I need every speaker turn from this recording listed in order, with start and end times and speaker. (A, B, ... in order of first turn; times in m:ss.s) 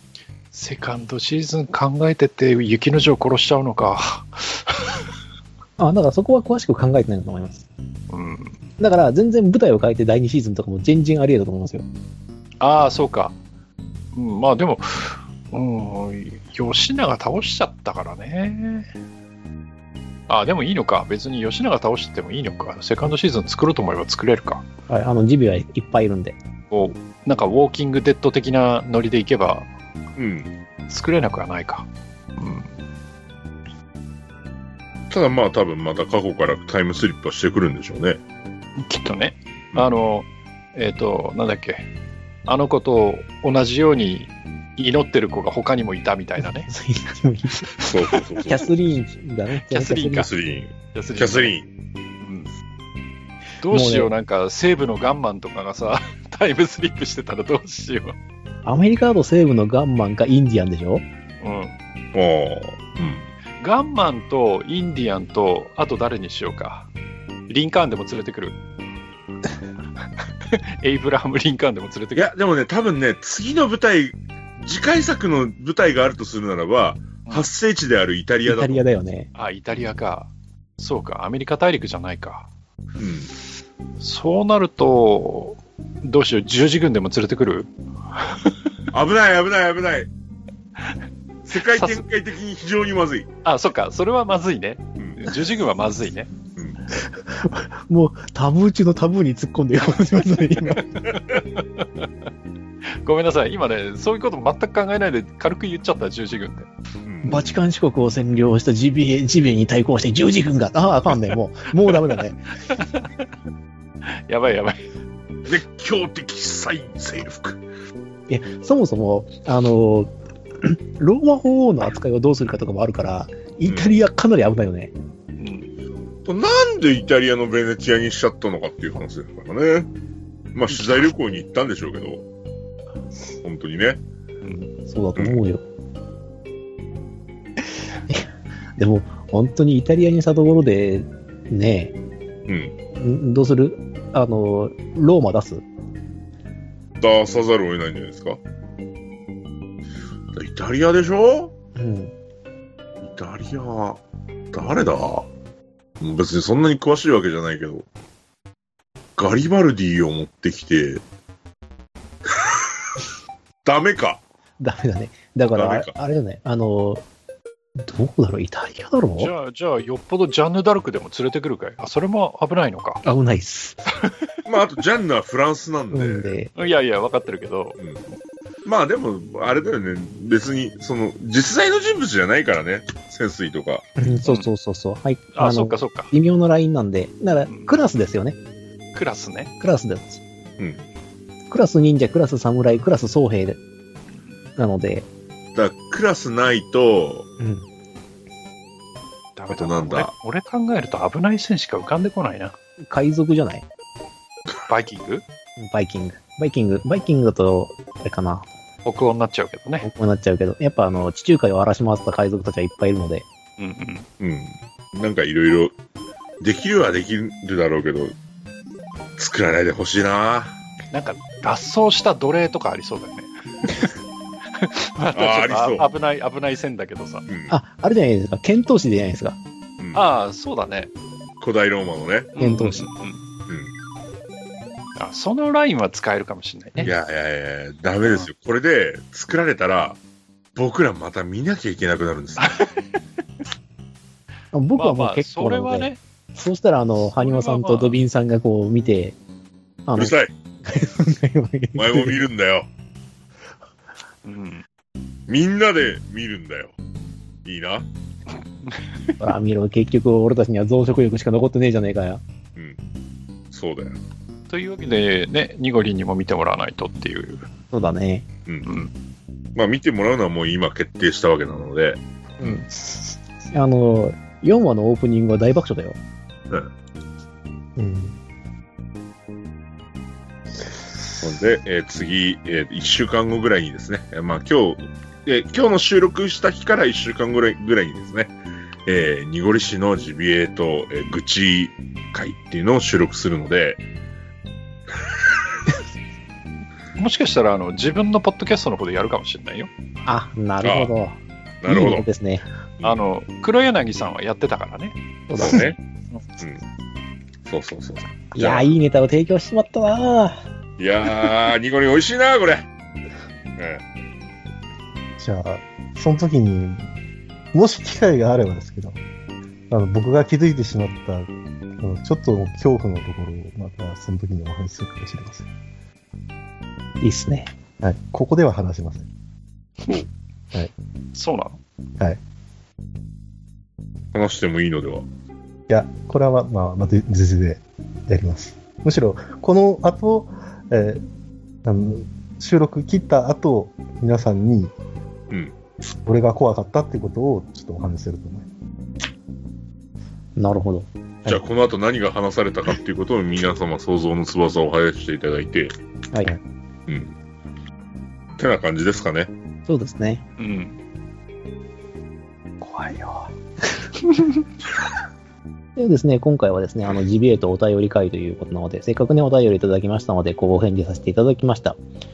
0:00.5-0:05.0 A
0:05.8-0:07.6 B
0:08.1-0:08.6 A
0:08.8-0:11.8 B
0:12.6-0:13.4 A
0:14.1-0:18.9 A
0:20.3-0:24.6 A
0:24.9-0:26.4 B
0:26.7-0:29.7 A
0:30.2-0:30.5 C
0:30.9-0:32.7 A
0:35.1-0:38.2 C
0:38.8-0:41.9 A
0:42.4-0:46.7 A
0:46.6-0:47.7 B
0:47.8-0:48.7 C
0:48.4-0:50.3 B
0:49.6-0:50.3 A
0:50.2-0:51.7 C
0:50.9-0:51.5 A
0:52.2-0:52.5 A
0:53.6-0:58.2 A
0:53.7-0:54.1 B
0:58.6-1:01.0 B
1:01.4-1:01.8 A
1:02.1-1:03.2 C
1:03.6-1:06.9 A
1:07.5-1:08.6 A
1:10.5-1:12.3 A
1:12.1-1:18.8 C
1:18.4-1:19.3 B
1:19.3-1:22.5 A
1:23.0-1:23.3 C
1:24.0-1:28.5 A
1:28.9-1:30.1 C
1:31.5-1:33.3 C
1:31.6-1:32.0 A
1:33.4-1:36.3 A
1:35.0-1:35.4 C
1:36.9-1:41.1 B
1:40.7-1:42.1 A
1:42.9-1:46.7 A
1:47.0-1:47.4 C
1:47.2-1:52.4 B
1:52.7-1:53.2 A
1:54.1-1:54.8 A
1:55.4-1:57.6 C
1:58.3-2:04.9 B
2:03.6-2:03.9 C
2:05.4-2:05.7 A
2:06.2-2:09.9 C
2:10.5-2:12.2 C
2:13.4-2:14.0 C
2:14.5-2:15.6 B
2:18.1-2:22.0 B
2:22.5-2:22.7 C
2:23.0-2:25.6 B
2:27.0-2:28.4 C
2:30.3-2:31.5 C
2:31.8-2:32.1 B
2:33.0-2:34.0 C
2:34.5-2:35.3 C
2:36.0-2:37.8 C
2:39.2-2:41.0 C
2:42.3-2:43.0 C
2:43.6-2:44.2 C
2:44.6-2:47.0 B
2:45.5-2:45.9 C
2:47.8-2:49.3 B
2:49.2-2:53.0 A
2:53.0-2:53.8 B
2:54.4-2:56.4 C
2:55.9-2:56.5 B
2:56.6-2:57.8 A
2:58.6-3:03.9 C
3:04.0-3:08.4 B
3:04.2-3:04.5 A
3:05.3-3:06.1 A
3:07.5-3:07.7 A
3:08.9-3:09.5 A
3:09.6-3:10.2 B
3:11.5-3:13.6 B
3:14.6-3:15.1 B
3:15.5-3:17.3 C
3:17.4-3:17.6 B
3:19.4-3:22.5 A
3:19.5-3:20.1 C
3:22.8-3:23.6 B
3:24.6-3:25.2 A
3:25.6-3:28.5 B
3:28.8-3:29.9 A
3:29.8-3:33.2 B
3:33.6-3:34.1 A
3:34.2-3:35.7 C
3:36.4-3:38.1 C
3:39.2-3:40.6 C
3:40.9-3:43.3 A
3:44.5-3:47.2 A
3:45.1-3:45.9 C
3:47.3-3:47.5 C
3:47.5-3:49.4 B
3:49.8-3:50.0 C
3:49.9-3:50.9 A
3:51.4-3:52.3 C
3:52.4-3:53.2 A
3:52.4-3:52.9 B
3:55.0-3:56.9 A
3:56.8-4:00.0 C
4:00.6-4:02.6 C
4:02.4-4:02.7 A
4:04.5-4:09.2 B
4:04.8-4:06.0 A
4:07.2-4:08.0 A
4:09.9-4:10.1 B
4:10.0-4:10.3 C
4:10.6-4:12.2 B
4:11.7-4:12.7 C
4:14.2-4:14.6 A
4:15.3-4:16.7 C
4:17.4-4:17.9 C
4:18.7-4:19.2 A
4:19.2-4:22.2 B
4:23.5-4:24.0 C
4:24.5-4:27.5 A
4:27.7-4:28.2 B
4:28.6-4:28.9 A
4:29.5-4:32.6 C
4:32.4-4:32.7 B
4:33.5-4:36.0 B
4:37.8-4:38.1 B
4:41.2-4:53.8 C
4:57.0-4:59.7 A
5:00.0-5:02.4 B
5:00.6-5:00.9 C
5:01.6-5:02.1 C
5:02.8-5:06.2 A
5:05.3-5:05.6 B
5:05.4-5:05.8 C
5:07.4-5:08.7 C
5:08.3-5:10.4 B
5:10.8-5:12.6 C
5:13.6-5:13.8 C
5:15.2-5:16.8 D
5:17.5-5:19.0 D
5:19.7-5:21.3 D
5:21.8-5:25.5 D
5:27.0-5:27.5 B
5:27.8-5:29.1 D
5:31.1-5:31.6 A
5:34.1-5:35.0 C
5:35.7-5:41.0 D
5:41.6-5:44.7 D
5:46.0-5:48.5 D
5:50.4-5:50.9 B
5:51.2-5:55.7 C
5:56.9-5:57.1 C
5:58.4-5:59.3 C
5:59.7-6:00.2 B
6:00.4-6:00.8 A
6:05.8-6:11.8 B